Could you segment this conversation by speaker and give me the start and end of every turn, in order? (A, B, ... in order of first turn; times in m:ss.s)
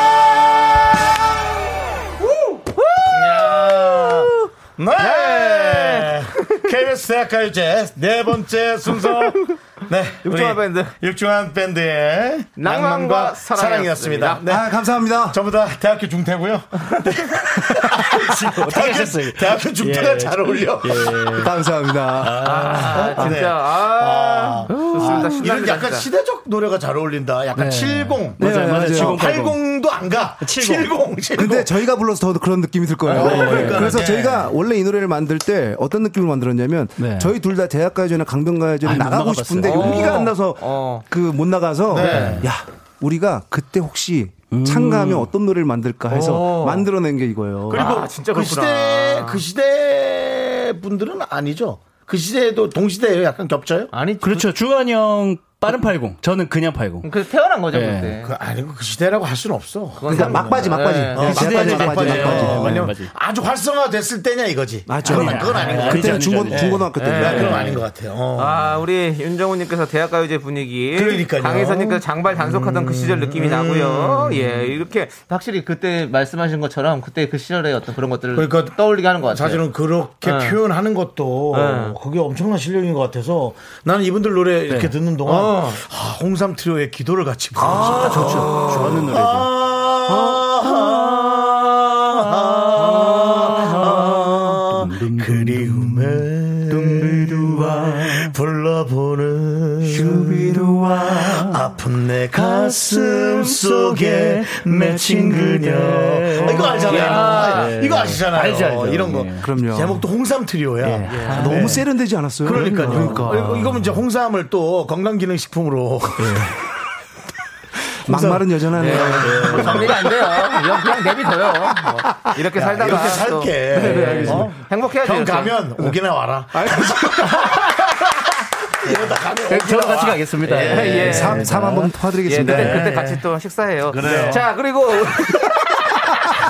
0:02.2-0:04.4 A
0:03.1-0:14.7 B
0:05.0-0:06.6 A
0:10.2-0:10.9 A
0:12.6-0:14.4 A
0:14.4-0:15.4 C
0:15.3-0:21.2 B
0:17.8-0:21.5 D
0:21.4-0:22.6 C
0:22.2-0:23.1 D
0:22.4-0:26.1 A
0:22.6-0:31.8 B
0:23.2-0:23.4 C
0:24.7-0:25.3 D
0:27.6-0:29.6 D
0:28.4-0:29.2 C
0:30.4-0:30.9 D
0:31.4-0:47.9 C
0:33.1-0:34.5 B
0:33.1-0:34.0 D
0:37.0-0:37.3 D
0:38.8-0:40.2 D
0:39.6-0:41.0 A
0:41.9-0:42.5 B
0:42.0-0:42.3 A
0:42.0-0:42.4 D
0:44.5-0:45.3 D
0:46.1-0:46.9 A
0:47.7-0:49.4 A
0:47.7-0:53.9 B
0:53.9-0:54.5 A
0:54.2-0:57.1 D
0:57.0-0:58.3 A
0:57.7-0:58.2 D
0:58.2-1:08.8 B
1:00.0-1:01.6 A
1:00.1-1:02.9 C
1:01.2-1:03.1 D
1:04.9-1:07.6 C
1:05.0-1:07.7 D
1:07.0-1:07.8 A
1:08.4-1:19.6 A
1:10.9-1:14.7 B
1:18.3-1:40.6 B
1:20.2-1:20.6 A
1:21.5-1:22.0 A
1:24.7-1:25.0 D
1:25.3-1:25.8 A
1:27.6-1:29.5 D
1:30.1-1:30.5 C
1:33.1-1:38.3 D
1:39.9-1:41.6 D
1:41.1-1:51.8 B
1:42.3-1:49.5 D
1:46.4-1:46.7 C
1:46.9-1:47.7 A
1:49.4-1:50.0 C
1:50.8-1:51.9 D
1:51.1-1:51.5 A
1:51.3-1:53.6 C
1:52.4-1:56.5 B
1:52.5-1:53.9 D
1:56.2-1:56.6 D
1:58.1-1:59.8 C
1:58.1-2:00.0 B
1:58.8-2:05.6 A
1:59.2-2:00.6 D
2:02.5-2:07.4 B
2:03.7-2:04.6 C
2:06.5-2:07.5 C
2:08.8-2:13.2 B
2:09.5-2:11.8 D
2:10.5-2:11.5 A
2:11.0-2:12.9 C
2:12.3-2:15.7 A
2:13.9-2:14.4 B
2:14.0-2:14.4 D